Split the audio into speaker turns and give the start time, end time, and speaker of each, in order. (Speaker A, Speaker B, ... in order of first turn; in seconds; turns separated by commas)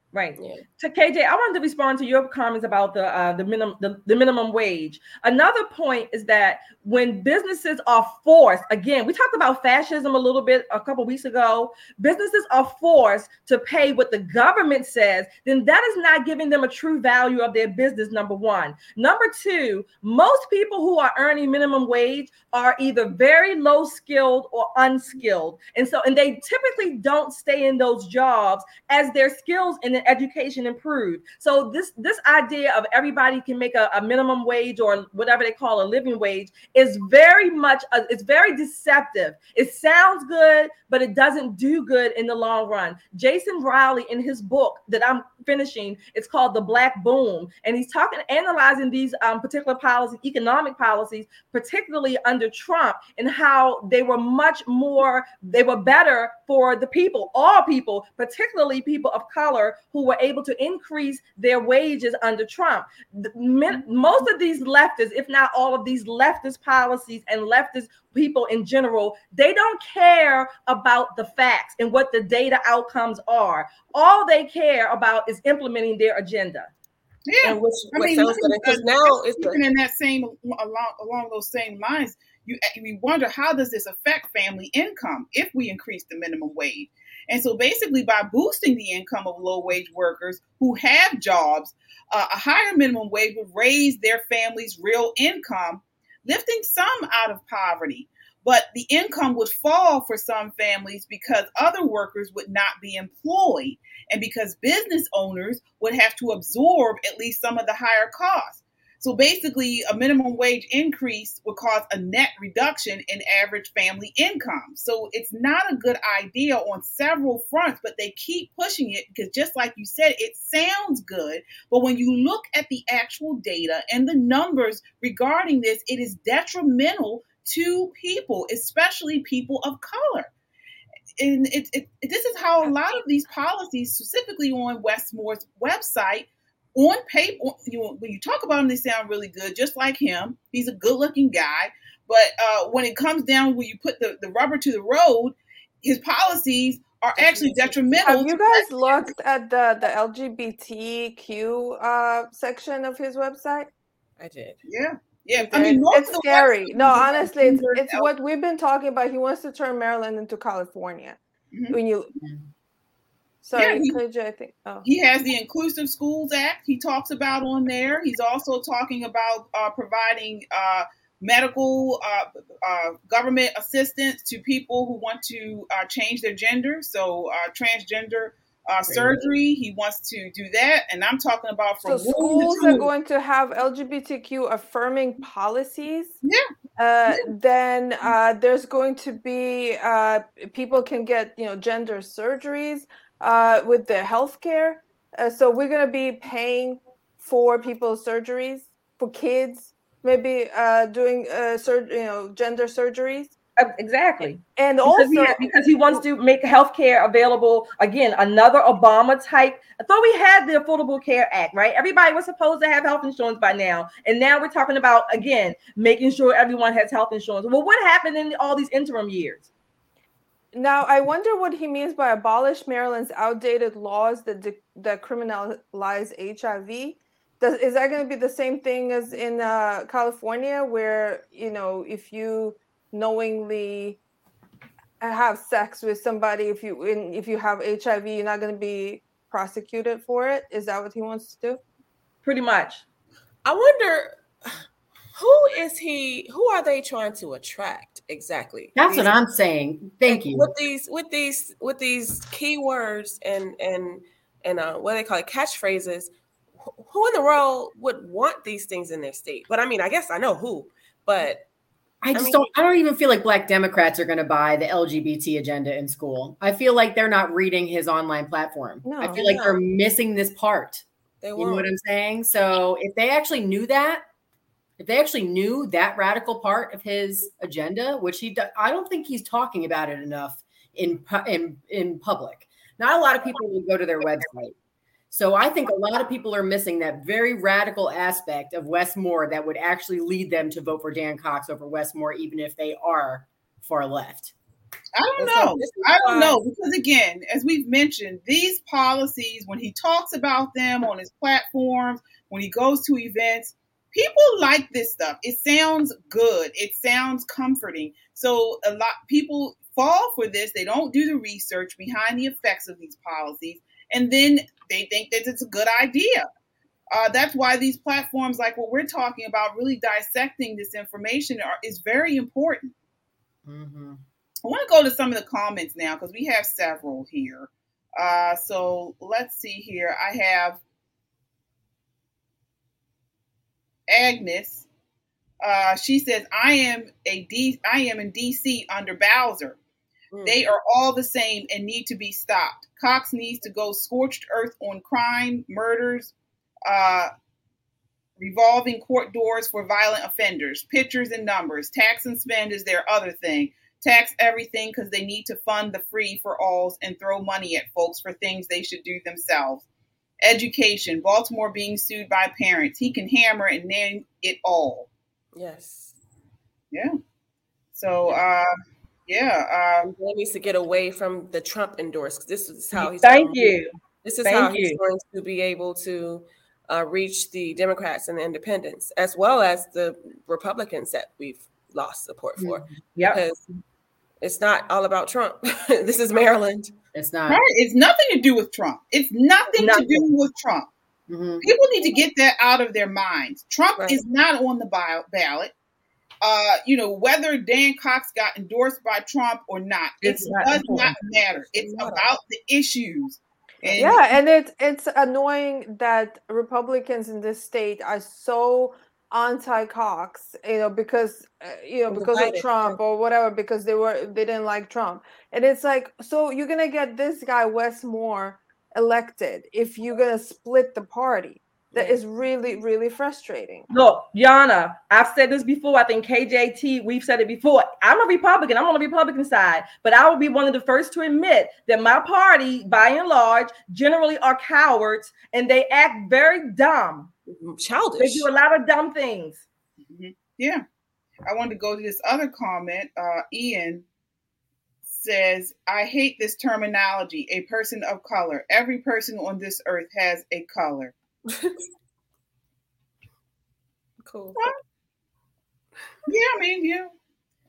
Speaker A: 0.1-76.7, Speaker B: 0.4-0.6, Speaker C: 77.3-130.3, Speaker B: 77.4-79.6, Speaker C: 131.2-148.7, Speaker B: 147.2-147.8, Speaker D: 148.0-153.7, Speaker B: 154.2-154.6, Speaker C: 154.7-158.1, Speaker D: 155.4-161.2, Speaker C: 161.5-161.8, Speaker D: 161.7-162.1, Speaker D: 163.4-164.9, Speaker C: 163.6-164.0, Speaker C: 164.8-182.9, Speaker D: 181.8-186.2, Speaker D: 186.8-203.3, Speaker A: 203.6-219.5, Speaker D: 204.6-206.0, Speaker D: 220.5-234.0, Speaker D: 235.0-241.6, Speaker A: 242.2-242.8, Speaker B: 243.4-244.6, Speaker B: 245.2-249.1, Speaker E: 248.8-250.5, Speaker B: 250.1-261.4, Speaker E: 262.0-274.0, Speaker B: 262.1-262.5, Speaker D: 268.8-269.2, Speaker B: 269.1-269.6, Speaker B: 271.2-271.7, Speaker E: 274.8-284.5, Speaker E: 285.1-294.3, Speaker C: 295.0-316.3, Speaker B: 295.2-296.4, Speaker C: 316.9-322.7, Speaker E: 323.4-324.0, Speaker C: 324.4-330.6, Speaker C: 333.9-334.7, Speaker C: 335.4-339.6, Speaker B: 340.1-340.4, Speaker C: 340.2-346.1, Speaker C: 346.7-347.1, Speaker C: 348.2-359.7, Speaker C: 360.2-364.9, Speaker B: 365.4-366.0, Speaker C: 367.7-368.5, Speaker C: 369.1-369.9, Speaker B: 369.8-383.4, Speaker A: 372.8-373.7, Speaker A: 374.2-374.8, Speaker E: 382.4-382.8, Speaker B: 384.2-386.7, Speaker E: 386.9-387.4, Speaker C: 387.3-390.7, Speaker A: 389.6-390.0, Speaker E: 391.1-391.5, Speaker C: 391.4-395.5, Speaker C: 396.2-404.0, Speaker A: 400.0-400.9, Speaker B: 401.5-402.1, Speaker B: 403.6-403.9, Speaker D: 403.8-423.6, Speaker B: 411.9-412.8, Speaker A: 423.7-437.1, Speaker B: 437.3-438.3, Speaker A: 438.0-439.4, Speaker C: 439.8-440.6, Speaker C: 441.2-443.9, Speaker C: 444.9-450.9, Speaker B: 454.0-454.4, Speaker C: 456.1-456.9